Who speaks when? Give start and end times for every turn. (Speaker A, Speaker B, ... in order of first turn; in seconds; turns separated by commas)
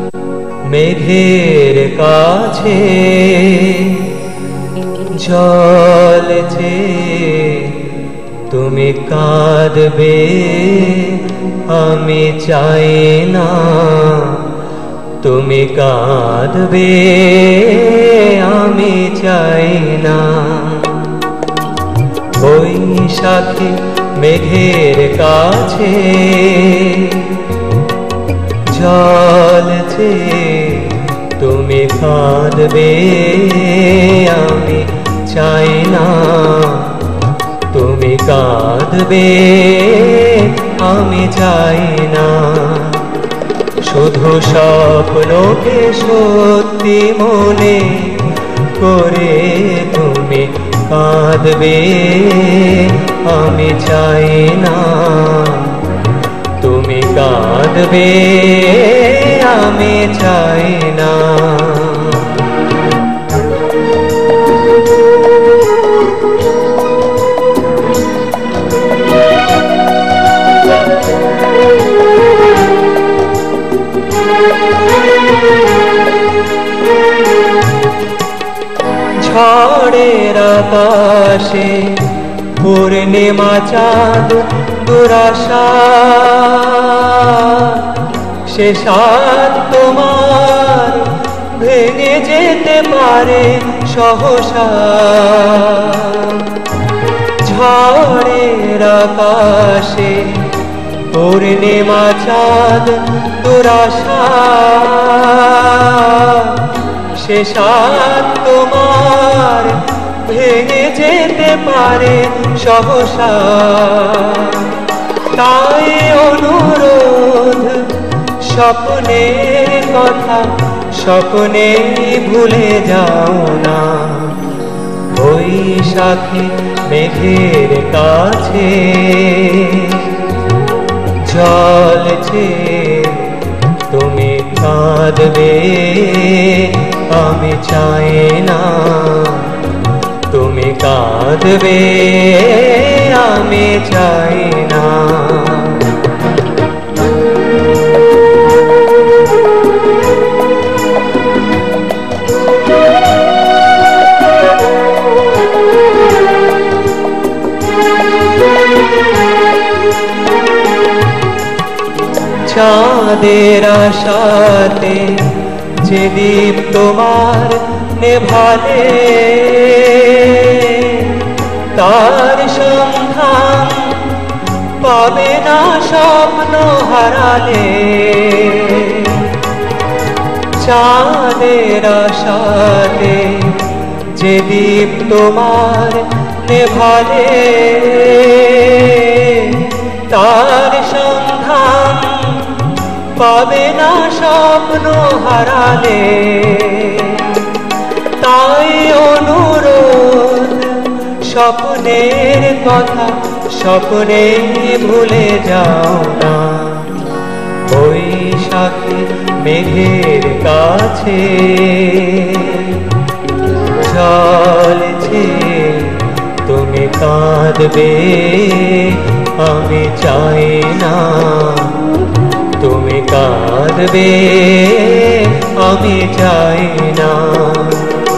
Speaker A: 0.7-4.1, Speaker A: 5.1-7.8, Speaker A: 8.5-14.5, Speaker A: 15.2-21.3, Speaker A: 22.4-27.5, Speaker A: 28.7-37.1, Speaker A: 37.7-43.1, Speaker A: 43.8-55.9, Speaker A: 56.6-62.4, Speaker A: 79.2-96.6, Speaker A: 97.4-100.5, Speaker A: 101.1-124.5, Speaker A: 125.1-130.2, Speaker A: 131.2-139.6, Speaker A: 140.3-146.0, Speaker A: 162.4-174.1, Speaker A: 174.8-179.4, Speaker A: 180.6-197.6, Speaker A: 198.2-207.0, Speaker A: 207.7-212.9, Speaker A: 213.8-221.8, Speaker A: 222.6-228.0